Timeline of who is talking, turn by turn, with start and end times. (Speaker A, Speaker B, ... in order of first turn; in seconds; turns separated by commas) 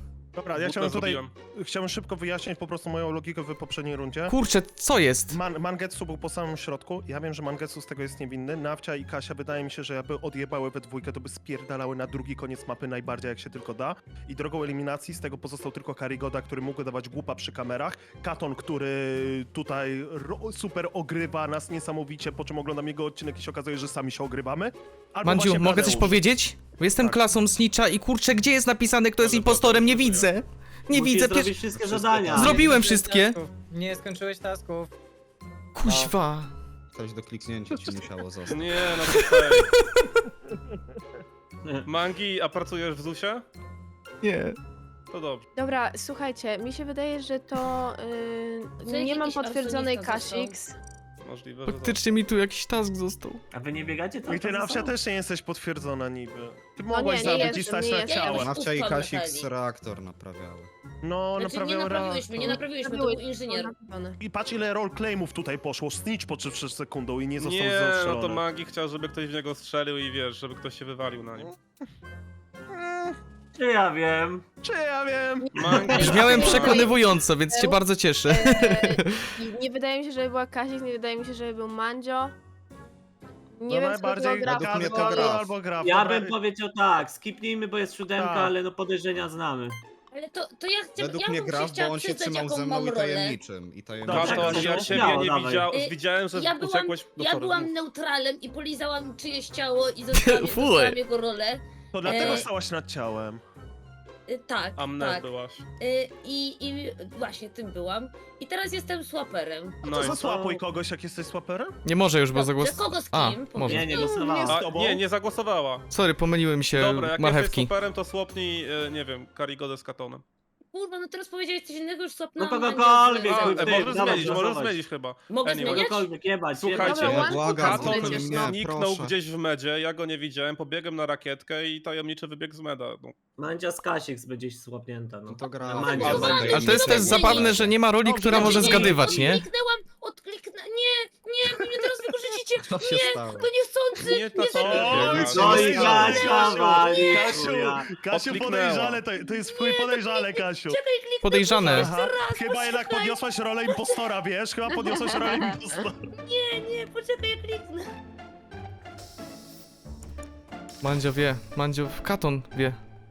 Speaker A: 0.3-4.3, Speaker B: 0.5-1.3, Speaker C: 4.3-5.4, Speaker A: 5.3-26.3, Speaker C: 25.2-31.6, Speaker B: 29.2-30.3, Speaker D: 30.9-32.6, Speaker E: 31.7-32.6, Speaker C: 32.3-33.4, Speaker F: 32.4-34.9, Speaker C: 35.7-36.5, Speaker E: 36.9-38.9, Speaker B: 38.5-39.7, Speaker C: 39.0-40.2, Speaker B: 41.9-43.4, Speaker C: 44.2-44.5, Speaker B: 45.1-45.4, Speaker G: 45.5-50.8, Speaker H: 48.8-50.5, Speaker B: 51.2-52.0, Speaker C: 51.6-53.4, Speaker D: 53.5-54.9, Speaker A: 54.3-58.5, Speaker G: 56.9-58.4, Speaker H: 57.2-59.5, Speaker E: 58.2-60.7, Speaker A: 61.0-62.7, Speaker H: 61.4-63.7, Speaker G: 62.4-64.2, Speaker A: 64.2-68.4, Speaker B: 67.4-71.5, Speaker A: 72.7-73.2, Speaker D: 73.5-74.4, Speaker A: 74.6-76.9, Speaker D: 75.5-75.8, Speaker B: 75.6-76.9, Speaker G: 75.9-77.0, Speaker C: 75.9-79.3, Speaker G: 77.5-82.3, Speaker G: 83.6-85.5, Speaker A: 83.7-86.3, Speaker E: 84.4-85.5, Speaker D: 85.8-89.8, Speaker A: 88.2-88.5, Speaker H: 90.1-93.4, Speaker E: 91.0-94.8, Speaker D: 94.0-95.7, Speaker A: 94.1-95.2, Speaker B: 94.1-97.7, Speaker H: 95.7-102.5, Speaker C: 100.1-101.0, Speaker A: 101.9-103.4, Speaker B: 102.1-102.5, Speaker H: 104.3-110.2, Speaker B: 104.8-105.6, Speaker B: 109.8-110.6, Speaker A: 109.8-111.8, Speaker C: 111.8-113.9, Speaker H: 112.3-114.2, Speaker D: 113.7-114.8, Speaker G: 114.0-114.5, Speaker A: 114.5-115.0, Speaker B: 114.5-115.9, Speaker C: 115.9-117.7, Speaker B: 116.7-120.2, Speaker H: 120.7-124.3, Speaker D: 122.4-124.8, Speaker B: 123.2-133.1, Speaker H: 125.3-126.1, Speaker D: 125.5-127.2, Speaker G: 126.8-128.5, Speaker E: 127.0-129.1, Speaker D: 133.4-136.7, Speaker E: 135.3-137.8, Speaker H: 136.1-147.5, Speaker C: 136.4-139.4, Speaker D: 138.3-139.4, Speaker E: 142.6-143.5, Speaker B: 144.0-145.7, Speaker A: 144.6-150.8, Speaker E: 144.7-146.4, Speaker D: 145.3-147.9, Speaker B: 148.1-149.0, Speaker H: 149.1-154.0, Speaker C: 151.2-151.9, Speaker A: 151.6-156.0, Speaker H: 154.8-155.6, Speaker H: 156.1-157.9, Speaker C: 160.8-162.8